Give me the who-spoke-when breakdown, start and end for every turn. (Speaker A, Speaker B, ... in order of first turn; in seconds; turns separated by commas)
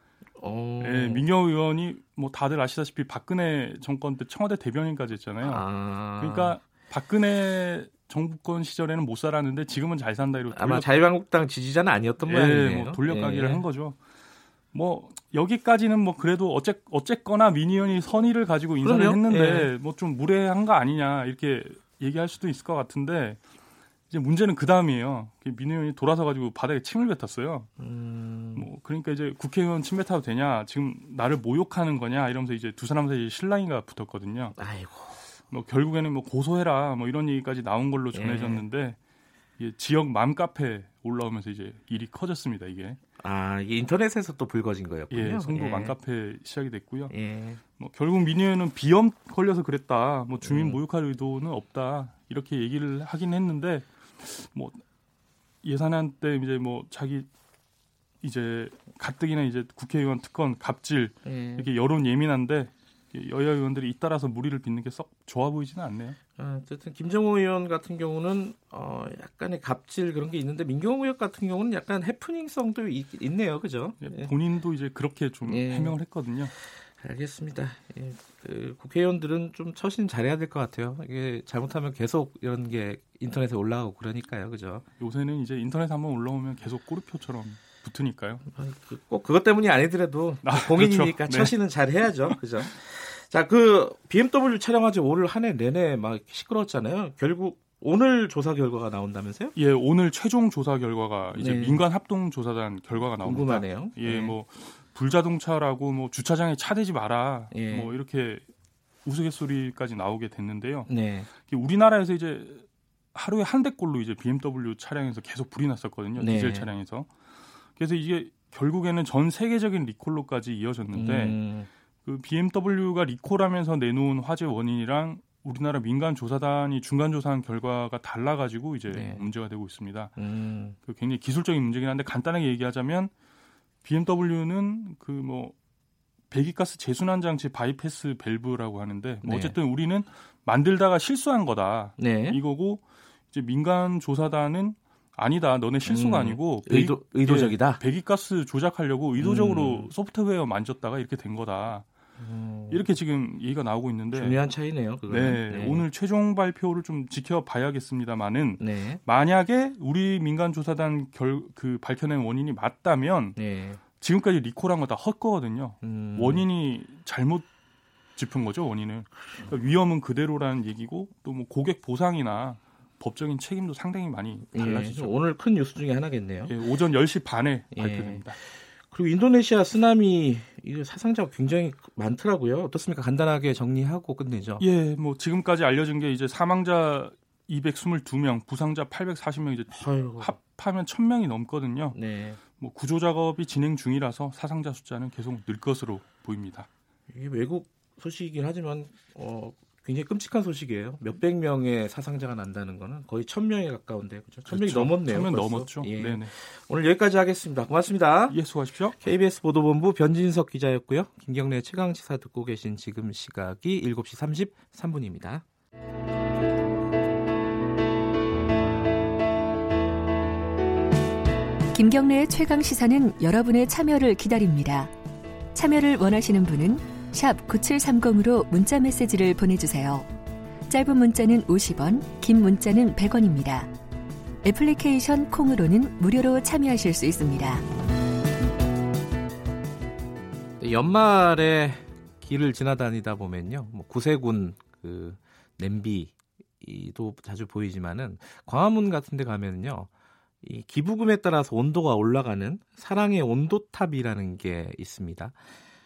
Speaker A: 0.4-1.2, Speaker B: 0.8-5.7, Speaker A: 5.4-6.6, Speaker B: 6.2-10.9, Speaker A: 10.5-13.6, Speaker B: 12.2-14.0, Speaker B: 14.7-23.4, Speaker A: 18.8-19.7, Speaker B: 24.1-27.7, Speaker A: 27.8-28.7, Speaker B: 28.6-34.6, Speaker A: 34.6-35.2, Speaker B: 35.5-39.0, Speaker A: 38.1-38.6, Speaker B: 39.6-43.0, Speaker A: 43.2-45.9, Speaker B: 45.1-47.1, Speaker A: 47.1-47.6, Speaker B: 47.8-54.8, Speaker A: 50.4-50.8, Speaker B: 55.6-57.3, Speaker B: 58.2-66.2, Speaker A: 61.2-61.7, Speaker A: 66.4-74.3, Speaker B: 74.0-76.5, Speaker A: 75.5-76.0, Speaker A: 77.0-84.8, Speaker B: 85.0-88.5, Speaker A: 88.5-99.5, Speaker B: 90.4-91.5, Speaker B: 99.5-108.4, Speaker A: 101.3-101.8, Speaker A: 103.2-104.3, Speaker A: 107.5-107.9, Speaker B: 109.0-117.1, Speaker A: 110.9-111.3, Speaker A: 116.2-116.7, Speaker B: 117.8-121.4, Speaker A: 120.9-121.7, Speaker B: 122.0-130.1, Speaker A: 128.9-129.2, Speaker A: 130.2-130.8, Speaker B: 130.8-133.1, Speaker B: 133.8-135.5, Speaker B: 136.3-151.8, Speaker A: 139.2-139.6, Speaker A: 142.0-142.4, Speaker A: 145.8-147.8, Speaker A: 149.2-149.9, Speaker A: 152.2-152.8, Speaker B: 152.7-154.4, Speaker A: 154.1-155.8, Speaker B: 155.1-163.4, Speaker A: 158.6-159.0, Speaker A: 163.3-163.8, Speaker B: 164.0-167.5, Speaker A: 165.8-166.4, Speaker B: 168.2-175.2, Speaker A: 174.5-176.5, Speaker B: 176.5-178.4, Speaker A: 177.7-178.3, Speaker A: 178.9-184.6, Speaker B: 184.6-192.0, Speaker A: 189.7-190.3, Speaker A: 191.9-192.4, Speaker B: 192.6-196.7, Speaker A: 197.1-208.4, Speaker B: 204.4-206.3, Speaker B: 208.3-209.0, Speaker A: 209.0-215.4, Speaker C: 221.7-224.9, Speaker C: 225.5-230.1, Speaker C: 230.7-233.7, Speaker C: 234.4-237.7, Speaker A: 240.6-249.9, Speaker A: 250.4-255.3